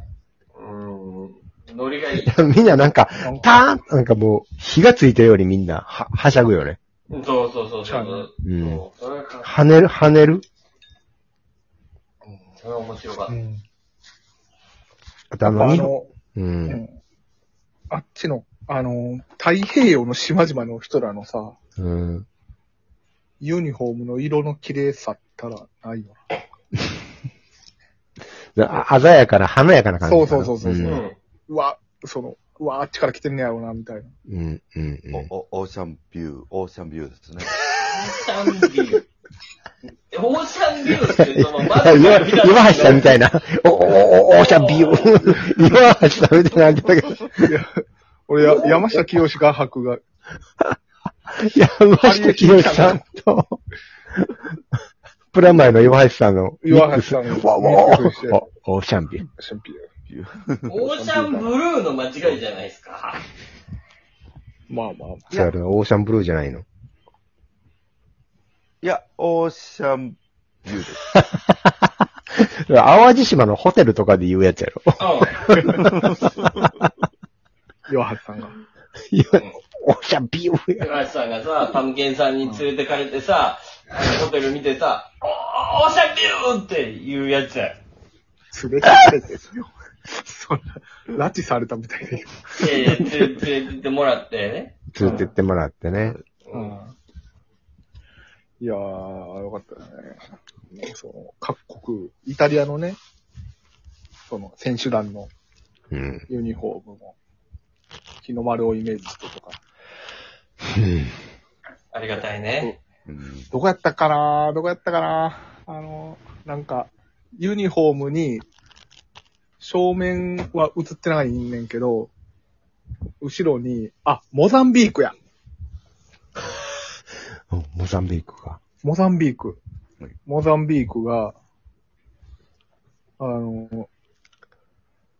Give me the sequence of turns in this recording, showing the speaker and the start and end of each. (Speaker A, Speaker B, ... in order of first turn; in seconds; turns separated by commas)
Speaker A: 0.5-2.4, Speaker B: 2.2-6.8, Speaker C: 3.2-3.5, Speaker A: 7.1-9.5, Speaker C: 7.8-8.3, Speaker B: 8.4-8.8, Speaker B: 9.4-10.4, Speaker A: 12.2-13.3, Speaker C: 13.3-13.6, Speaker B: 15.3-16.8, Speaker C: 15.4-16.1, Speaker C: 16.7-16.9, Speaker C: 17.9-21.6, Speaker B: 21.8-22.2, Speaker C: 23.4-26.2, Speaker B: 28.5-31.0, Speaker C: 30.0-34.1, Speaker A: 30.8-31.2, Speaker B: 34.3-35.3, Speaker D: 35.1-37.5, Speaker A: 37.8-39.0, Speaker A: 40.1-43.1, Speaker B: 41.2-47.5, Speaker A: 44.2-45.2, Speaker C: 47.4-50.0, Speaker A: 48.4-48.7, Speaker B: 51.4-53.6, Speaker C: 51.9-53.0, Speaker B: 55.3-59.2, Speaker C: 56.6-58.5, Speaker C: 59.3-59.9, Speaker D: 60.1-60.7, Speaker A: 60.7-63.2, Speaker C: 60.8-61.5, Speaker C: 64.7-65.3, Speaker B: 65.3-66.6, Speaker D: 68.8-71.0, Speaker B: 72.7-76.7, Speaker A: 75.0-75.4, Speaker C: 77.9-78.5, Speaker B: 79.1-80.9, Speaker A: 80.8-87.8, Speaker C: 88.5-93.1, Speaker A: 92.6-94.8, Speaker B: 94.9-96.2, Speaker C: 95.0-95.3, Speaker A: 96.4-96.8, Speaker C: 96.5-96.9, Speaker C: 98.6-103.0, Speaker C: 104.3-105.3, Speaker B: 105.9-106.2, Speaker C: 106.3-107.1, Speaker C: 108.2-109.6, Speaker B: 110.7-111.2, Speaker A: 111.9-112.8, Speaker D: 113.1-113.5, Speaker C: 113.5-118.4, Speaker C: 119.6-122.1, Speaker C: 123.2-125.1, Speaker B: 127.5-128.6, Speaker C: 128.8-129.6, Speaker C: 130.2-131.3, Speaker C: 133.2-133.9